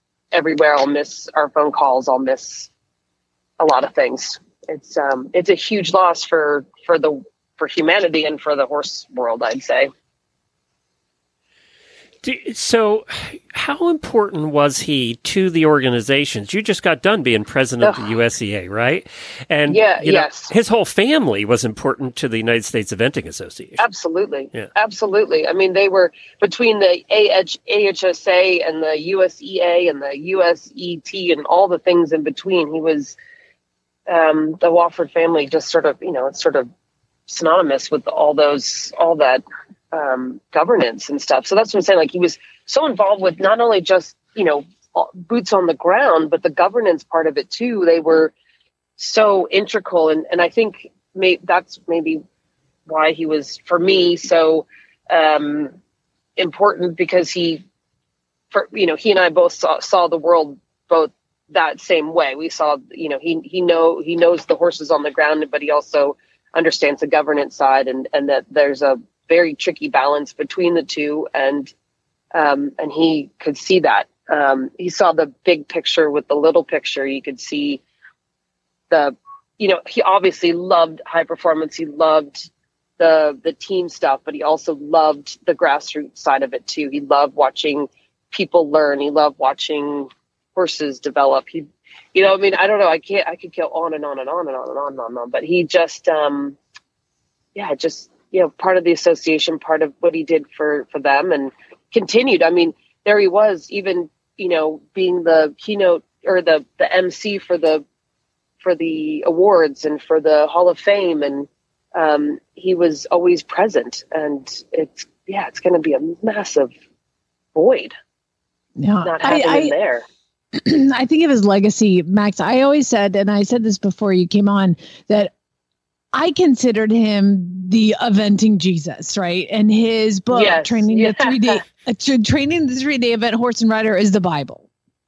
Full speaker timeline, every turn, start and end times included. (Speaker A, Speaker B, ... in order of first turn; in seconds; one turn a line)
Speaker A: 0.3-2.7
Speaker A: 3.6-9.9
Speaker B: 12.2-23.8
Speaker A: 17.8-18.1
Speaker A: 19.7-20.5
Speaker A: 23.8-33.2
Speaker A: 34.1-36.7
Speaker A: 37.3-48.3
Speaker A: 49.0-52.2
Speaker A: 52.9-55.7
Speaker A: 56.4-57.6
Speaker A: 58.5-71.7
Speaker A: 72.3-77.8
Speaker A: 78.9-96.6
Speaker A: 97.5-107.8
Speaker A: 108.6-116.7
Speaker A: 117.5-117.9
Speaker C: 118.8-119.7
Speaker A: 119.0-120.0
Speaker C: 120.5-125.3
Speaker C: 126.1-134.7
Speaker A: 130.3-131.6